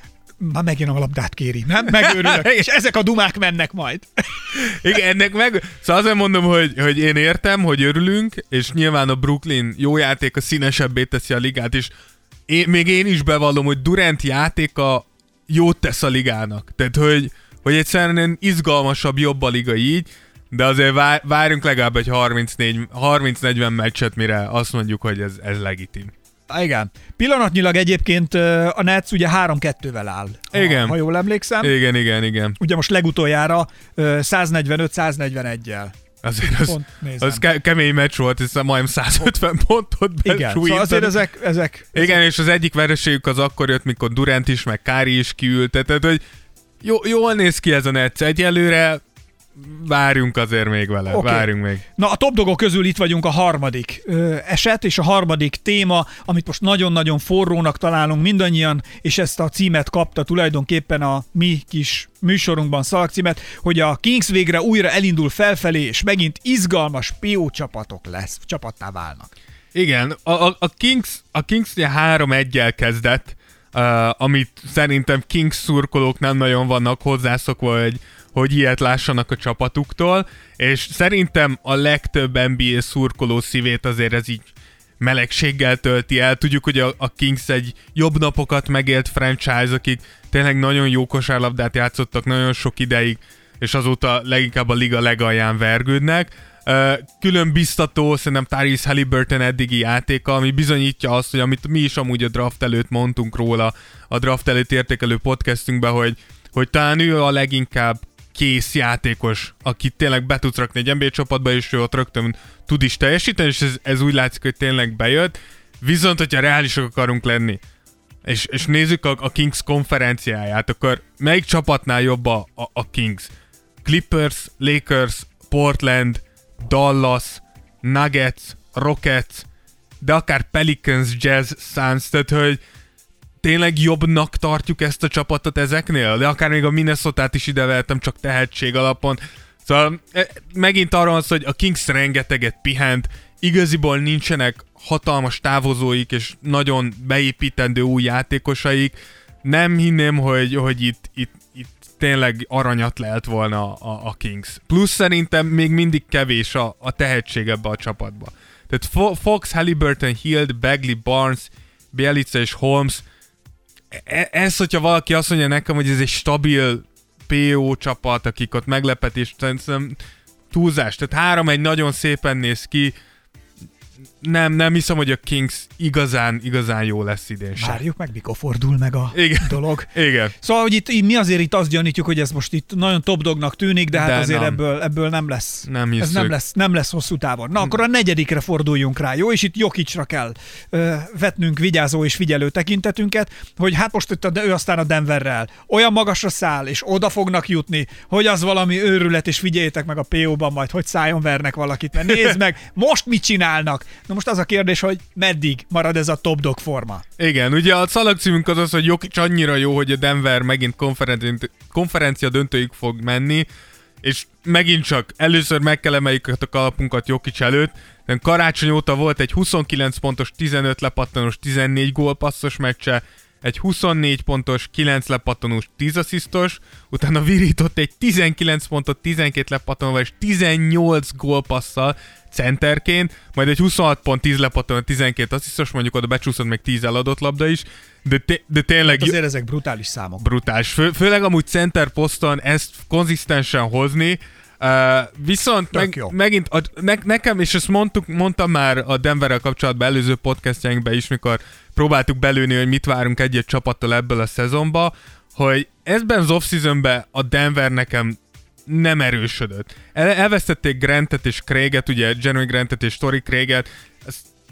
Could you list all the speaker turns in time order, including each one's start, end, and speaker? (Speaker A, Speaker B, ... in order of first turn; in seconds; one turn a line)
Speaker A: 0.4-4.5
Speaker B: 1.9-2.6
Speaker B: 4.5-11.9
Speaker B: 12.5-26.1
Speaker A: 26.5-31.7
Speaker B: 30.5-31.0
Speaker B: 31.6-32.5
Speaker A: 32.6-35.9
Speaker B: 36.2-41.1
Speaker A: 36.6-37.4
Speaker A: 40.2-42.2
Speaker B: 41.9-46.2
Speaker B: 46.8-49.0
Speaker B: 49.5-51.8
Speaker A: 51.1-69.3
Speaker B: 69.7-117.6
Speaker B: 118.2-123.3
Speaker B: 123.8-129.4
Speaker B: 130.0-132.6
Speaker B: 133.4-163.0
Speaker B: 163.9-170.0
Speaker B: 170.5-172.9
Speaker B: 174.2-177.8
Speaker A: 177.6-207.0
Speaker B: 179.1-180.3
Speaker B: 183.9-184.6
Speaker B: 185.7-186.3
Speaker B: 202.0-202.3
Speaker B: 207.2-213.4
Speaker B: 214.0-239.2
Speaker A: 238.8-240.2
Speaker B: 240.2-264.2
Speaker A: 245.7-246.1